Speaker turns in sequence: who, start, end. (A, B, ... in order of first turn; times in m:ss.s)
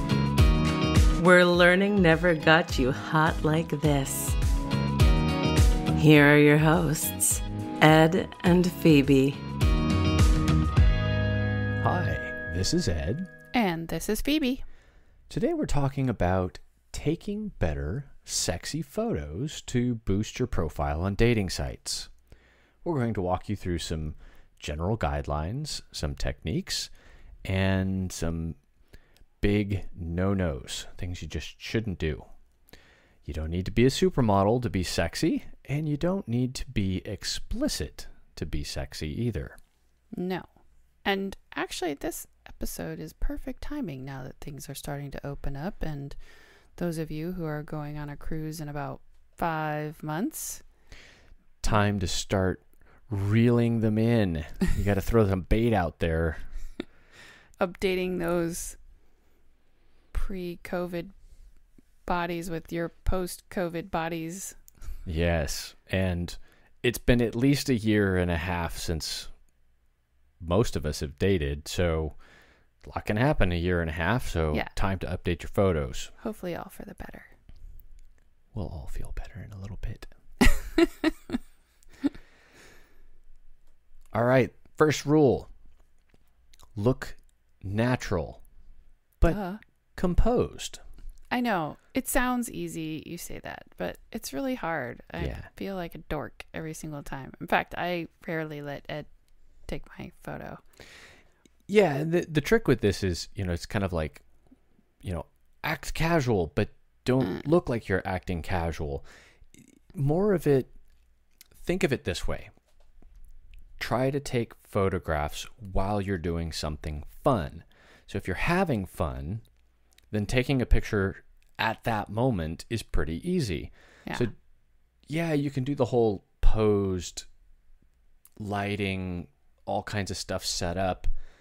0:01.2-0:04.4 A
0:05.9-0:09.4 A
0:11.8-0:13.3 B
0:13.5-0:14.6 C
0:15.3-0:22.1 B
0:22.8-0:26.9 B
0:27.4-0:28.6 B
0:29.4-0:32.2 B
0:33.2-0:39.6 B
0:40.1-0:40.5 C
0:41.0-0:46.2 C
0:46.8-0:50.6 C
0:51.6-0:56.5 B
0:57.6-0:58.8 C
1:00.1-1:01.2 C
1:02.0-1:04.6 C
1:05.0-1:09.3 B
1:10.4-1:12.2 B
1:12.8-1:16.1 B
1:16.2-1:17.3 C
1:18.5-1:20.1 B
1:20.5-1:21.1 C
1:24.1-1:25.5 B
1:26.8-1:28.4 B
1:29.3-1:29.6 C
1:30.0-1:30.8 B
1:31.3-1:39.1 C
1:35.2-1:35.5 B
1:39.6-1:40.6 C
1:41.7-1:44.2 B
1:45.0-1:49.0 B
1:49.6-1:50.7 B
1:51.6-1:52.5 B
1:53.8-1:59.4 B
2:00.1-2:04.3 B
2:05.1-2:07.3 B
2:08.4-2:11.1 B